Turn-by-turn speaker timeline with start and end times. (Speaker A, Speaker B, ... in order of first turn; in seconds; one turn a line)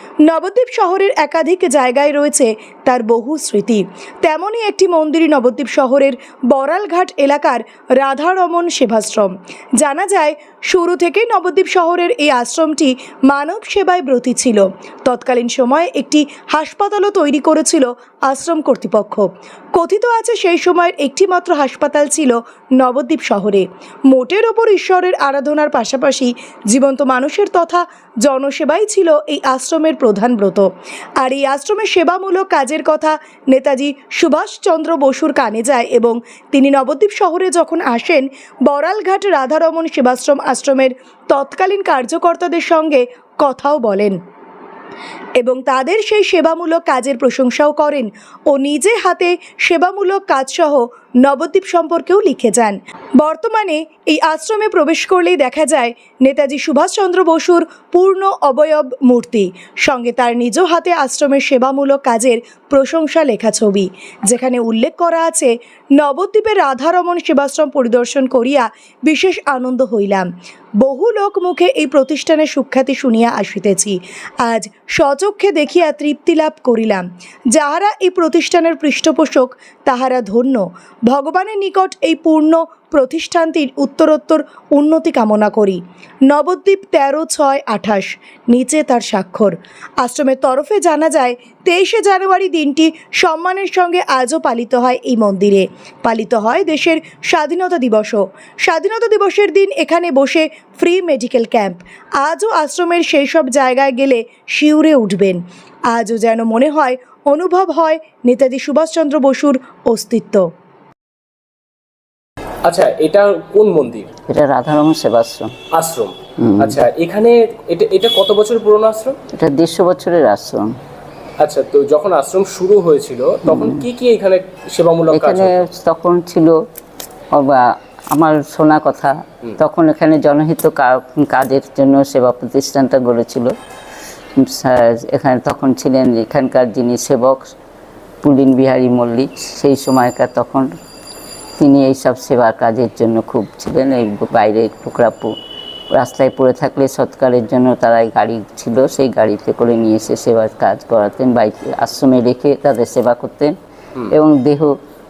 Speaker A: 0.3-30.7
Speaker A: 31.2-44.2
Speaker A: 45.4-70.3
Speaker A: 70.8-110.4
Speaker B: 112.7-114.1
Speaker C: 114.3-115.5
Speaker B: 115.8-119.2
Speaker C: 116.4-116.8
Speaker C: 119.3-120.7
Speaker B: 121.4-125.6
Speaker C: 123.5-123.8
Speaker C: 125.1-126.5
Speaker C: 127.3-133.5
Speaker C: 134.4-137.5
Speaker C: 138.2-140.7
Speaker C: 141.6-145.3
Speaker C: 145.9-153.5
Speaker C: 154.1-154.7